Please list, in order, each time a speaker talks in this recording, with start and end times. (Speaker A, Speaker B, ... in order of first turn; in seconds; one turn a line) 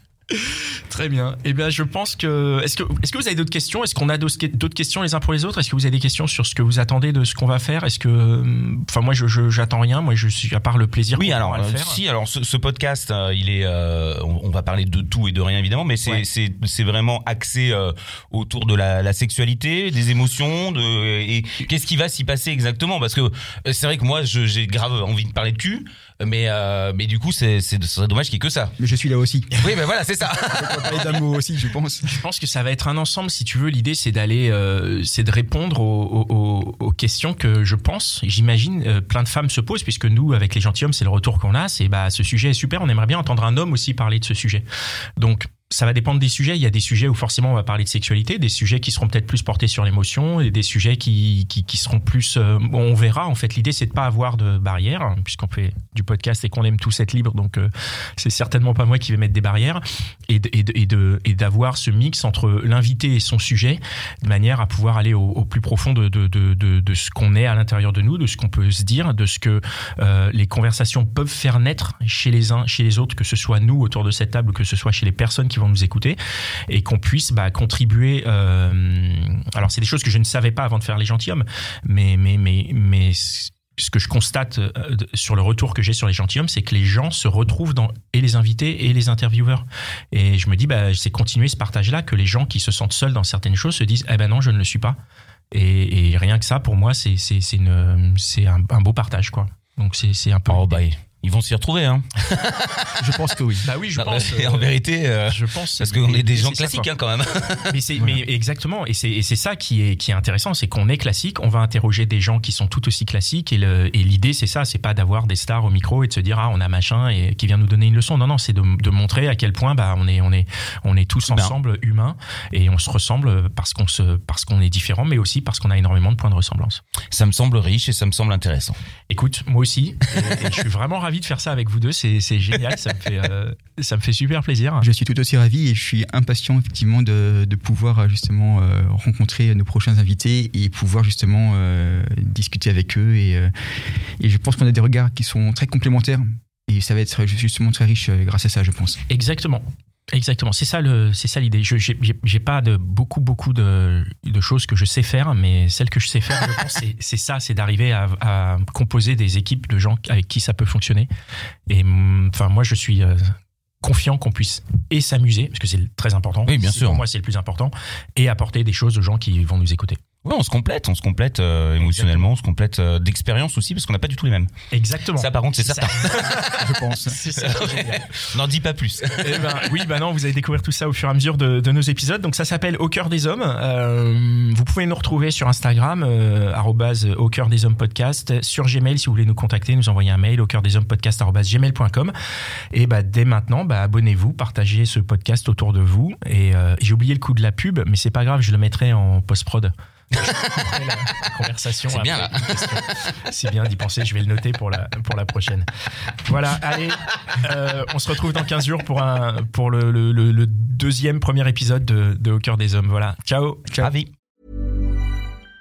Speaker A: 0.3-12.0
Speaker B: 11.1-28.8
Speaker C: 28.8-29.6
Speaker B: 29.6-31.2
Speaker C: 30.5-32.1
Speaker A: 32.0-44.6
Speaker A: 45.2-76.2
Speaker A: 76.7-95.0
Speaker A: 95.5-100.8
Speaker B: 100.5-103.2
Speaker C: 103.0-103.7
Speaker A: 103.6-104.7
Speaker B: 103.9-107.8
Speaker A: 105.2-106.9
Speaker A: 107.7-126.8
Speaker B: 121.3-121.5
Speaker B: 127.1-128.8
Speaker A: 129.1-134.9
Speaker C: 134.8-149.0
Speaker A: 149.1-161.1
Speaker A: 161.7-170.0
Speaker B: 166.4-167.0
Speaker B: 170.2-174.5
Speaker A: 171.8-172.3
Speaker A: 174.7-178.1
Speaker B: 175.2-176.5
Speaker C: 176.4-177.3
Speaker B: 177.4-179.7
Speaker A: 179.2-192.1
Speaker A: 192.7-213.7
Speaker B: 201.9-202.8
Speaker B: 213.8-214.1